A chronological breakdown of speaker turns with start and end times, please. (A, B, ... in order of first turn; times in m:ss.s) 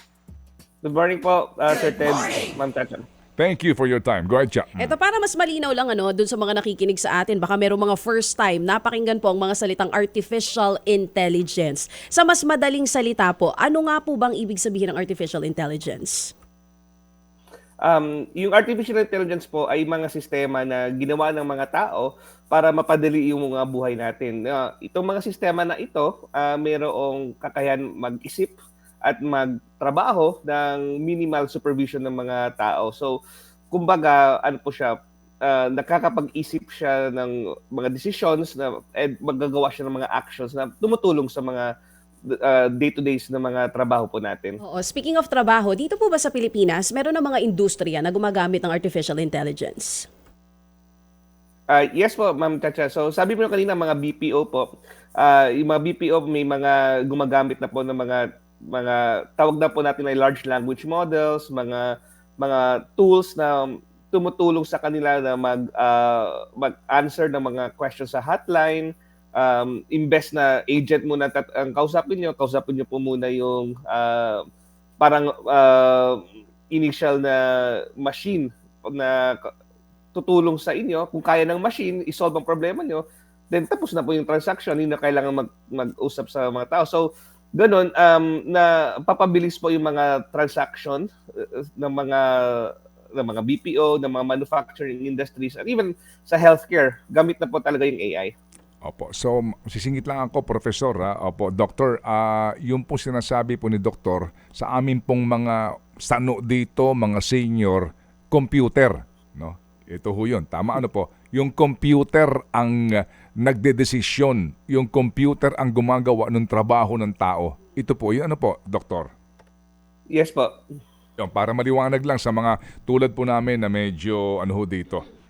0:00.8-0:03.0 A
0:03.4-0:04.9 B
0:04.8-0:16.3 C
0:17.8-0:33.1 A
0:33.7-0:34.9 A
0:35.4-0:41.7 A
0:42.3-0:44.6 A
0:44.6-0:50.1 C
0:51.7-0:54.7 A
0:55.2-1:01.9 A
1:02.4-1:14.4 A
1:15.0-1:19.5 A
1:20.1-1:38.3 A
1:38.8-1:59.1 B
2:00.1-2:00.6 A
2:01.2-2:05.0 B